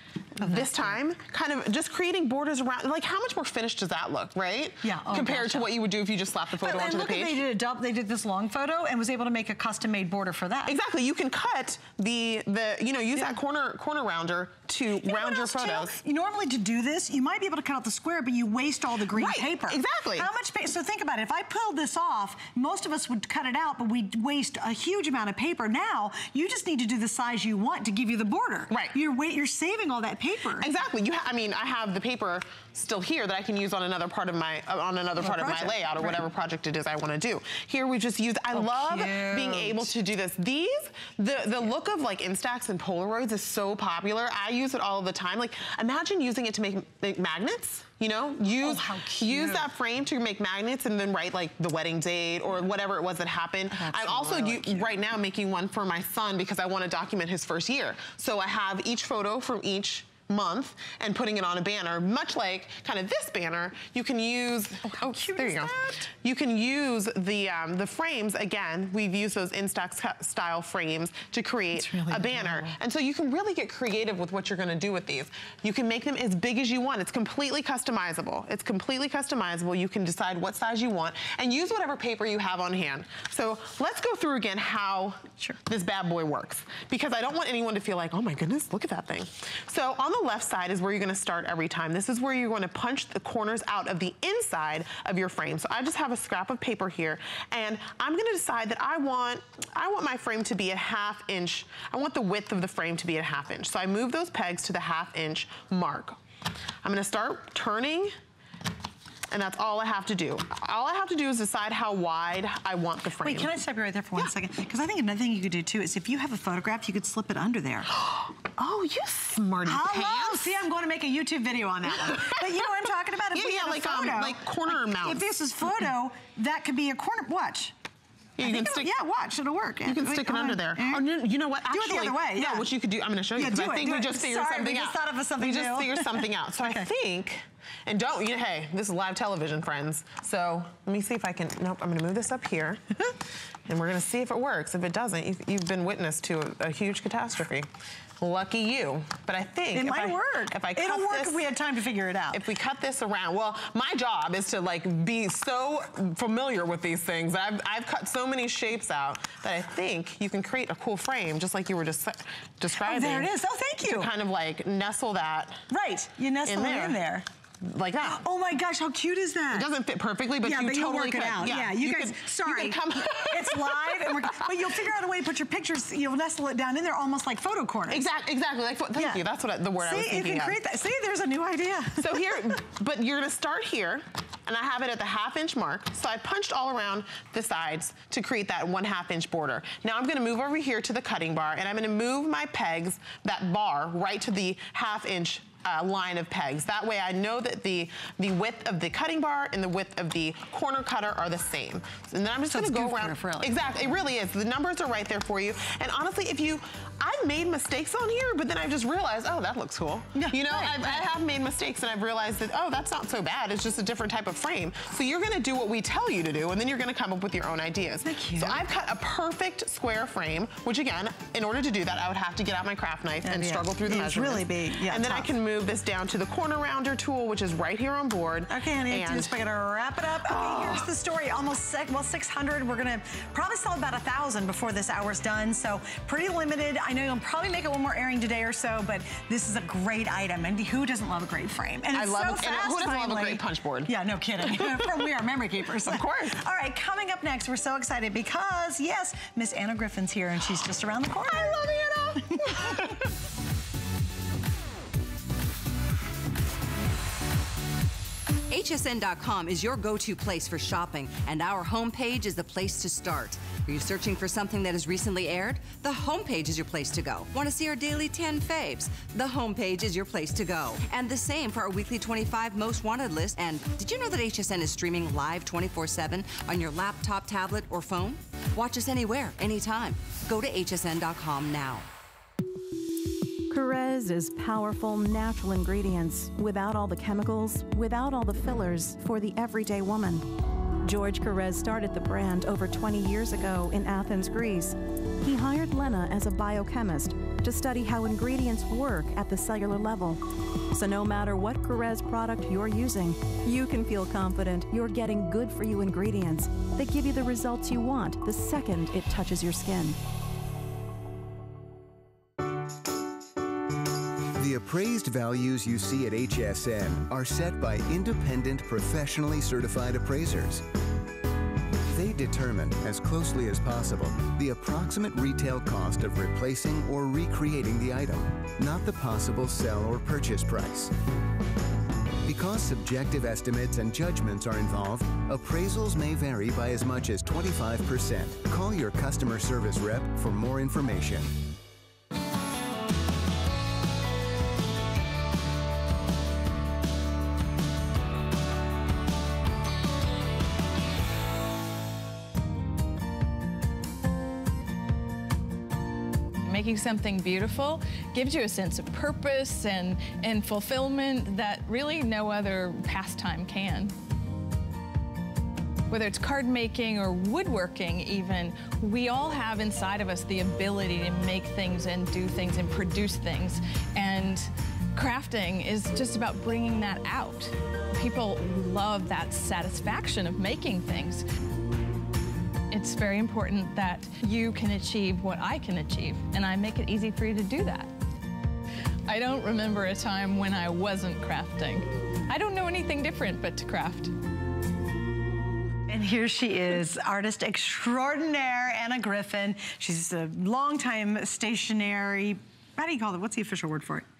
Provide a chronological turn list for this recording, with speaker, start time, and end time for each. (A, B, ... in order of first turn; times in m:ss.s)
0:00.4-0:07.4 A
0:00.4-0:01.0 B
0:04.8-0:05.7 B
0:06.6-0:10.7 B
0:10.6-0:15.9 A
0:15.0-0:30.7 B
0:19.1-0:20.3 A
0:28.7-0:29.0 A
0:30.6-1:46.2 A
0:35.2-0:36.2 B
0:38.5-0:39.9 B
0:48.6-0:49.7 B
0:53.7-0:55.0 B
1:04.8-1:06.0 B
1:11.8-1:12.7 B
1:46.8-1:48.1 A
1:49.3-1:53.5 A
1:53.2-1:58.0 B
1:58.4-2:00.6 A
1:59.6-2:07.7 B
2:01.9-2:02.3 A
2:03.3-2:05.2 A
2:08.4-2:08.9 A
2:08.4-2:11.1 B
2:09.8-2:22.8 A
2:11.7-2:12.7 B
2:13.4-2:16.9 B
2:23.7-2:27.7 A
2:28.2-2:31.5 A
2:29.7-2:32.4 B
2:32.3-2:45.6 A
2:42.8-2:44.1 B
2:45.7-2:47.2 B
2:46.4-2:48.2 A
2:48.0-2:49.7 B
2:49.5-2:54.7 A
2:50.4-2:58.0 B
2:57.9-3:00.6 A
2:58.9-2:59.2 B
2:59.8-3:02.6 B
3:02.0-3:49.3 A
3:22.5-3:23.7 B
3:30.1-3:31.1 B
3:38.0-3:38.6 B
3:43.2-3:45.3 B
3:48.5-4:13.0 B
3:50.2-3:50.9 A
4:01.9-4:05.1 A
4:05.8-4:06.4 A
4:11.4-4:12.7 A
4:18.5-4:41.9 C
4:43.5-4:50.3 D
4:50.8-5:10.0 D
5:14.4-5:20.6 E
5:21.9-5:30.9 E
5:32.2-5:41.4 E
5:56.4-6:03.9 F
6:05.9-6:21.2 F
6:22.7-6:27.9 F
6:29.1-6:34.1 F
6:35.9-6:44.0 B